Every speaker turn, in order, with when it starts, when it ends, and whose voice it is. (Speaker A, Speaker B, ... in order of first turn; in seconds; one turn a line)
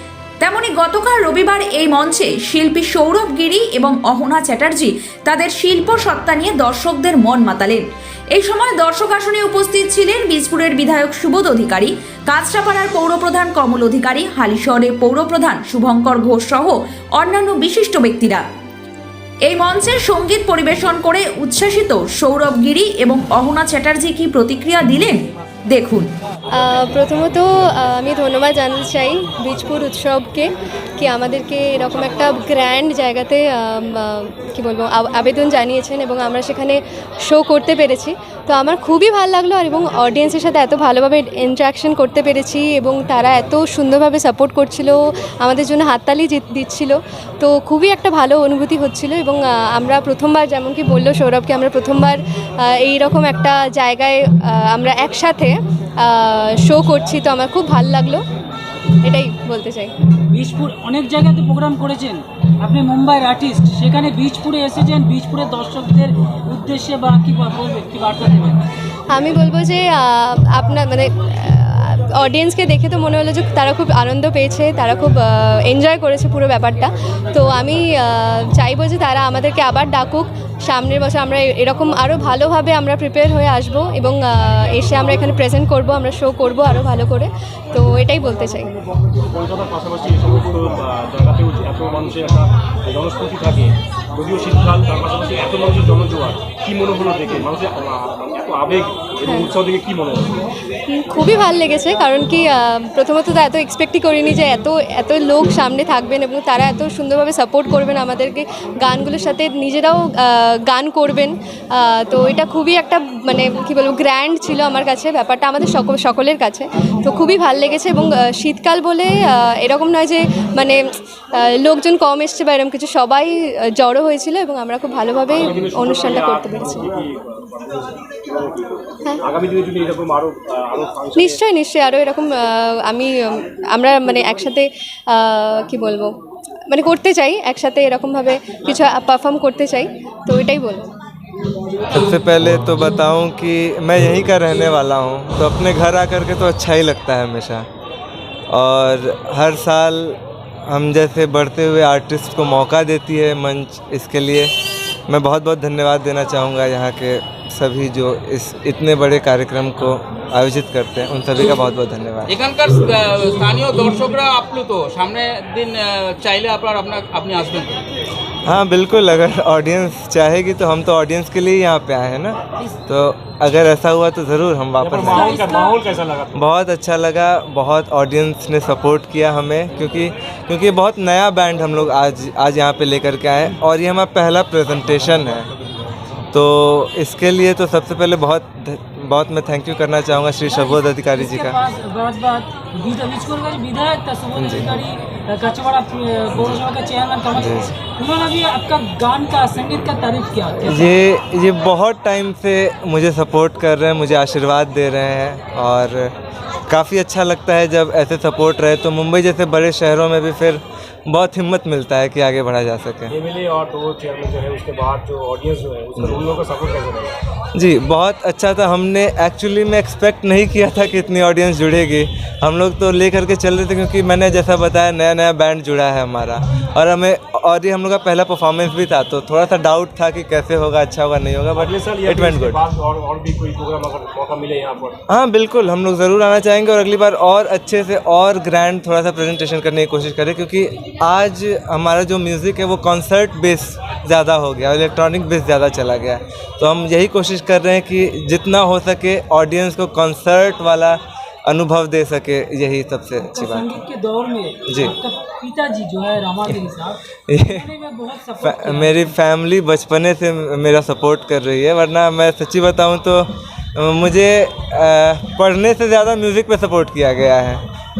Speaker A: 0.4-18.4
Speaker A: 19.5-26.1
Speaker B: 26.5-58.2
Speaker B: 59.0-59.9
Speaker C: 60.3-68.6
Speaker B: 69.1-88.7
Speaker D: 89.3-100.5
Speaker B: 99.2-99.5
Speaker B: 100.9-120.8
Speaker B: 121.3-126.8
Speaker D: 125.3-131.4
Speaker B: 131.2-136.1
Speaker B: 136.7-140.9
Speaker E: 141.9-147.7
Speaker E: 148.5-154.5
Speaker E: 155.1-162.3
Speaker F: 162.3-167.8
Speaker E: 168.4-175.2
Speaker D: 174.8-176.4
Speaker C: 175.1-175.8
Speaker E: 176.3-185.5
Speaker E: 186.3-191.6
Speaker C: 190.5-200.9
Speaker E: 194.3-194.8
Speaker E: 197.3-197.7
Speaker E: 200.7-206.1
Speaker E: 206.7-213.1
Speaker D: 213.1-217.1
Speaker E: 217.5-232.6
Speaker D: 231.5-235.0
Speaker E: 235.1-253.8
Speaker C: 253.2-259.1
Speaker E: 254.7-254.9
Speaker E: 257.3-257.6
Speaker E: 258.4-267.6